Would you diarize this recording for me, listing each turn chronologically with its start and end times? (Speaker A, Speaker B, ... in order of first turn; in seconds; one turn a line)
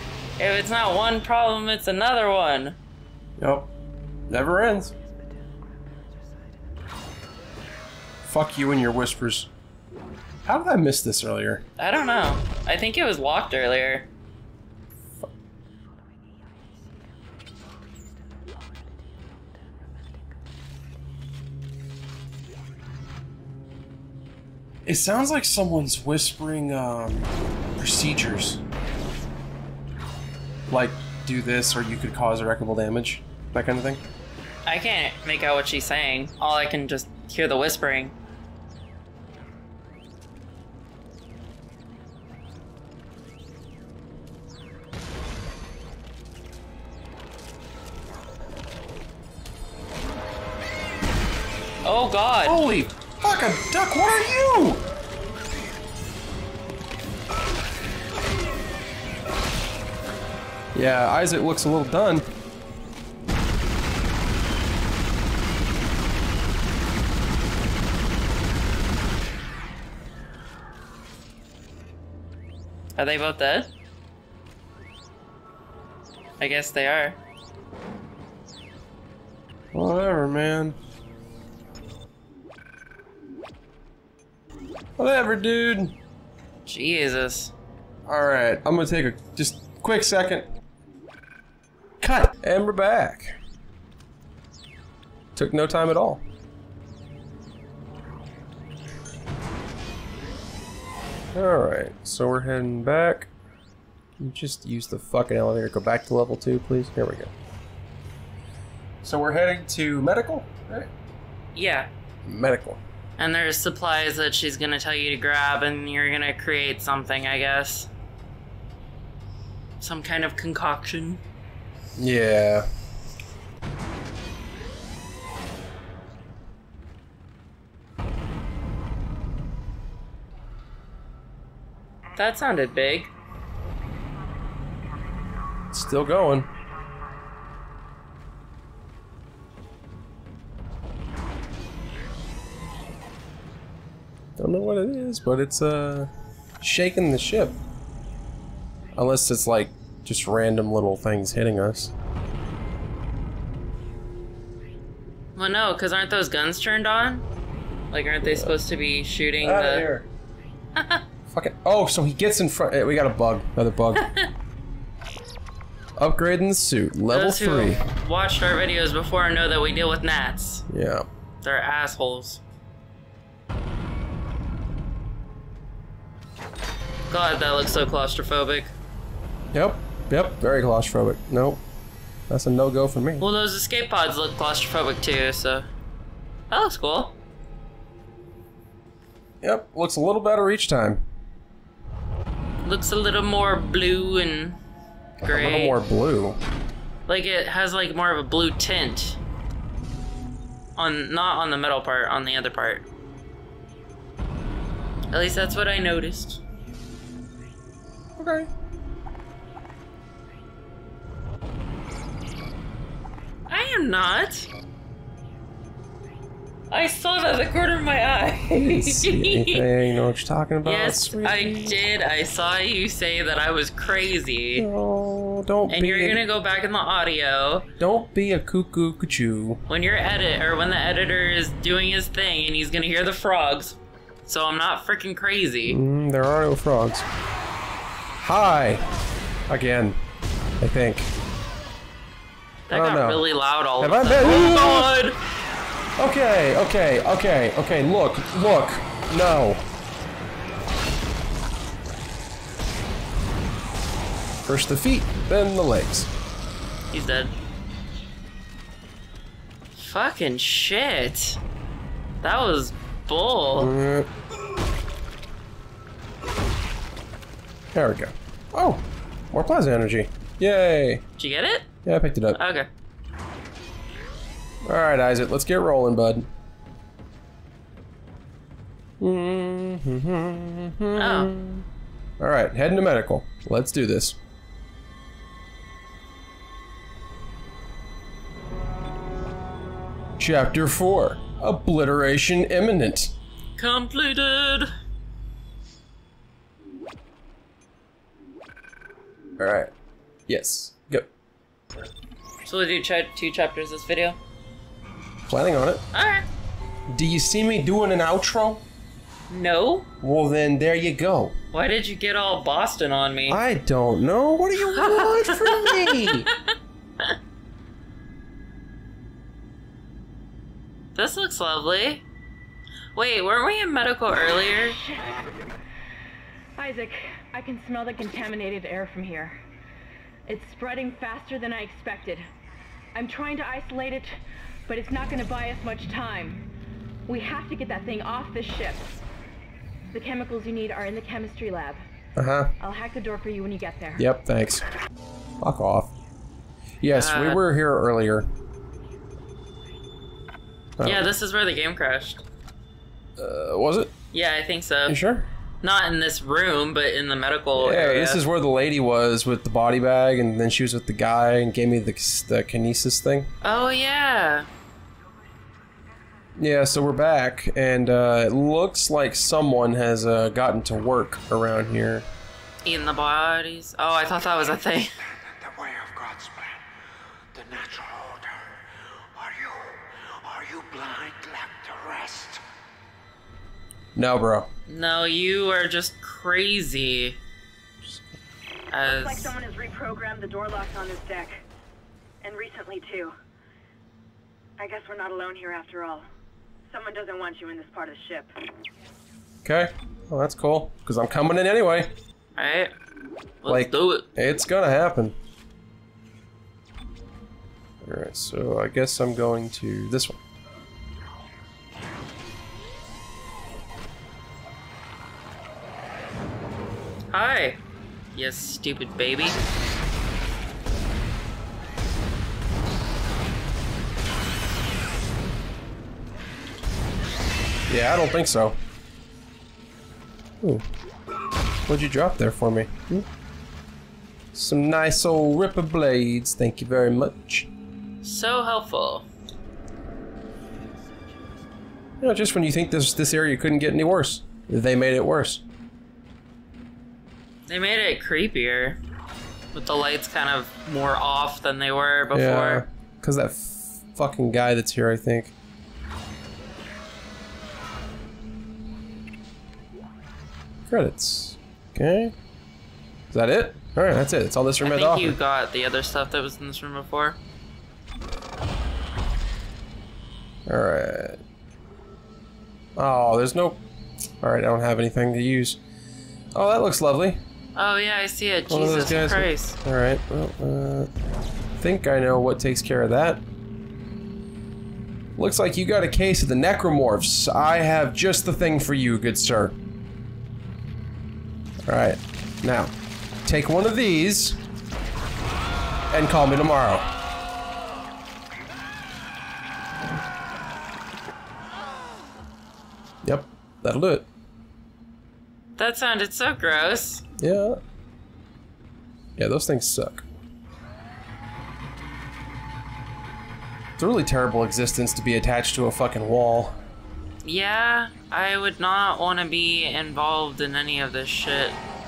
Speaker A: 0.4-2.8
Speaker B: 3.4-3.7
Speaker B: 4.3-4.9
Speaker B: 8.2-9.5
Speaker B: 10.4-11.6
Speaker A: 11.8-14.1
Speaker B: 24.8-28.6
Speaker B: 30.7-34.0
Speaker A: 34.6-38.1
Speaker A: 51.8-52.6
Speaker B: 52.4-54.8
Speaker B: 60.7-62.3
Speaker A: 73.0-73.7
Speaker A: 76.4-77.2
Speaker B: 79.7-80.8
Speaker B: 85.0-85.9
Speaker A: 86.7-87.5
Speaker B: 88.0-90.5
Speaker B: 92.0-93.3
Speaker B: 95.3-96.2
Speaker B: 101.3-103.3
Speaker B: 104.2-107.3
Speaker B: 109.0-110.9
Speaker A: 111.5-111.9
Speaker B: 112.2-112.8
Speaker A: 113.2-117.9
Speaker A: 119.8-121.2
Speaker B: 122.0-122.7
Speaker A: 132.1-133.1
Speaker B: 135.7-136.5
Speaker B: 144.4-146.1
Speaker B: 146.6-147.6
Speaker B: 148.9-151.9
Speaker A: 155.3-157.2
Speaker A: 157.9-159.9
Speaker B: 158.2-158.5
Speaker B: 159.4-160.1
Speaker A: 160.8-161.0
Speaker B: 161.3-164.0
Speaker A: 163.9-164.3
Speaker B: 166.0-167.8
Speaker A: 167.1-170.6
Speaker B: 170.7-171.1
Speaker A: 171.4-172.4
Speaker A: 177.1-178.7
Speaker B: 179.5-181.6
Speaker B: 182.3-183.2
Speaker A: 183.2-185.7
Speaker A: 186.5-187.1
Speaker B: 189.4-191.0
Speaker A: 192.6-194.6
Speaker B: 195.2-196.4
Speaker A: 195.2-195.8
Speaker A: 197.1-199.2
Speaker A: 200.8-202.8
Speaker A: 205.1-206.4
Speaker B: 208.2-208.5
Speaker A: 213.5-214.5
Speaker A: 216.7-219.7
Speaker B: 218.6-221.8
Speaker A: 220.6-224.7
Speaker B: 224.6-226.2
Speaker A: 225.7-227.7
Speaker B: 227.8-229.6
Speaker A: 229.7-235.8
Speaker B: 235.7-237.1
Speaker B: 238.2-238.8
Speaker B: 239.5-240.0
Speaker B: 240.6-241.1
Speaker A: 242.7-245.2
Speaker B: 242.7-245.0
Speaker B: 246.0-249.6
Speaker B: 254.4-256.1
Speaker A: 256.9-257.3
Speaker A: 259.8-261.4
Speaker A: 262.2-263.7
Speaker B: 263.6-264.1
Speaker B: 267.7-271.0
Speaker A: 271.2-271.7
Speaker B: 271.8-272.4
Speaker A: 272.3-272.7
Speaker B: 274.6-276.3
Speaker B: 279.0-281.6
Speaker A: 280.9-281.3
Speaker B: 282.2-284.2
Speaker B: 290.2-293.1
Speaker A: 293.6-294.7
Speaker B: 299.4-299.7
Speaker B: 300.3-301.1
Speaker A: 302.4-304.2
Speaker B: 305.3-305.8
Speaker A: 305.9-306.2
Speaker B: 306.9-308.6
Speaker A: 309.3-309.9
Speaker B: 310.0-311.4
Speaker A: 311.5-313.4
Speaker B: 313.3-316.3
Speaker A: 314.7-316.1
Speaker A: 320.9-322.0
Speaker A: 322.9-324.8
Speaker C: 324.8-325.3
Speaker C: 326.6-329.4
Speaker C: 330.3-332.3
Speaker C: 332.9-334.1
Speaker C: 334.7-336.4
Speaker C: 337.1-338.8
Speaker C: 339.9-341.8
Speaker B: 342.1-342.5
Speaker C: 342.6-344.1
Speaker B: 344.0-344.6
Speaker B: 345.4-345.9
Speaker B: 346.8-348.3
Speaker A: 346.9-347.4
Speaker B: 350.8-351.1
Speaker A: 350.8-352.2
Speaker B: 353.2-353.9
Speaker A: 354.1-355.0
Speaker B: 354.9-355.3
Speaker A: 355.6-358.2
Speaker B: 357.5-363.3
Speaker A: 363.4-364.5
Speaker B: 366.4-372.1
Speaker A: 372.6-374.9
Speaker D: 375.1-376.6
Speaker D: 377.3-378.2
Speaker D: 379.1-382.4
Speaker B: 383.9-384.5
Speaker A: 384.7-387.2
Speaker B: 387.8-388.1
Speaker A: 388.7-389.3
Speaker E: 388.8-391.4
Speaker E: 392.2-393.1
Speaker E: 394.6-396.1
Speaker E: 396.6-398.3
Speaker B: 399.4-401.9
Speaker A: 402.4-402.7
Speaker A: 403.4-404.1
Speaker B: 403.5-405.1
Speaker B: 407.8-410.2
Speaker A: 417.1-417.6
Speaker A: 418.1-419.4
Speaker B: 427.7-428.6
Speaker B: 431.7-433.1
Speaker B: 434.3-437.5
Speaker A: 438.0-439.1
Speaker B: 442.0-445.4
Speaker A: 447.5-448.8
Speaker A: 449.5-452.6
Speaker B: 452.1-455.3
Speaker B: 460.7-462.1
Speaker B: 463.1-465.2
Speaker A: 464.6-467.2
Speaker B: 470.5-471.2
Speaker B: 472.8-473.6
Speaker B: 474.2-475.6
Speaker B: 476.3-477.2
Speaker A: 477.6-479.6
Speaker B: 478.5-480.9
Speaker B: 481.6-483.2
Speaker B: 485.1-489.6
Speaker B: 491.6-492.7
Speaker B: 493.2-494.4
Speaker B: 495.9-496.9
Speaker B: 503.0-504.1
Speaker A: 505.6-507.0
Speaker B: 507.2-507.6
Speaker B: 509.2-510.0
Speaker B: 513.8-516.6
Speaker A: 517.2-521.6